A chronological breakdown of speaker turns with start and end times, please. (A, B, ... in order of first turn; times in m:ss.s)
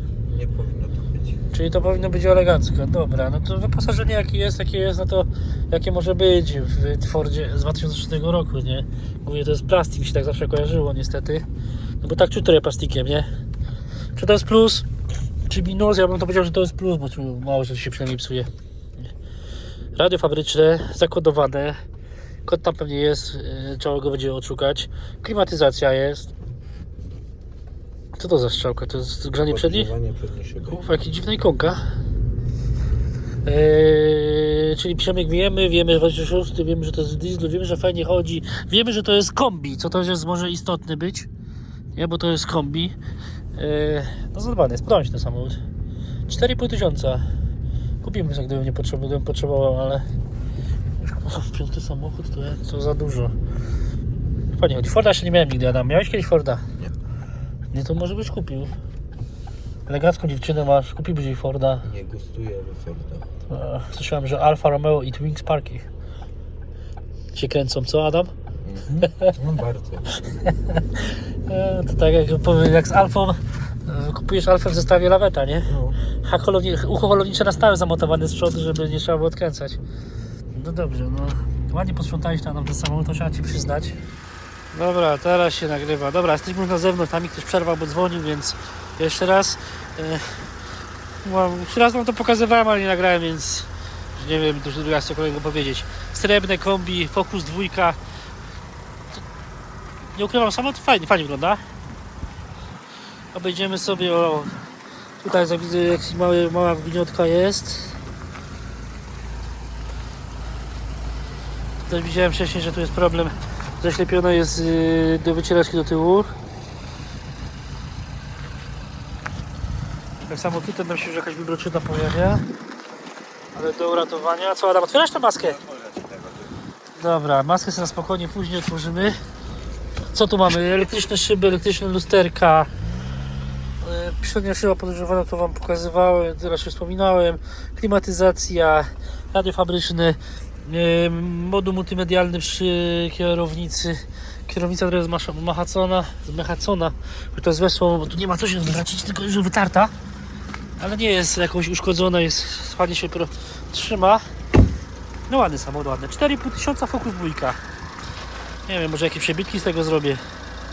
0:00.2-0:01.5 A
0:01.5-0:11.4 B
0:12.0-0:13.3 B
0:14.2-0:14.9 B
0:15.5-0:18.5 B
0:20.0-0:21.8 B
0:22.4-0:26.3 B
0:28.2-0:29.9 B
0:29.5-0:30.9 A
0:30.7-0:31.8 B
0:33.4-0:41.3 B
0:42.0-0:43.0 B
0:43.6-0:45.6 B
0:46.3-0:47.3 B
0:48.0-0:50.1 B
0:51.0-0:53.4 B
0:54.5-0:56.6 B
0:57.7-0:58.7 B
0:59.9-1:01.9 B
1:01.8-1:03.3 A
1:03.5-1:05.9 B
1:07.4-1:08.3 B
1:08.6-1:10.1 A
1:09.0-1:09.3 B
1:10.3-1:19.8 B
1:15.7-1:16.0 A
1:20.5-1:24.0 B
1:24.7-1:30.5 B
1:31.2-1:38.0 B
1:40.1-1:41.6 B
1:43.3-1:44.7 B
1:45.2-1:48.0 B
1:51.8-1:56.3 B
2:00.3-2:02.5 B
2:03.6-2:05.6 B
2:05.7-2:06.5 A
2:07.0-2:09.2 B
2:10.1-2:12.7 B
2:13.8-2:29.9 B
2:30.8-2:34.3 B
2:35.3-2:37.6 B
2:38.7-2:40.2 B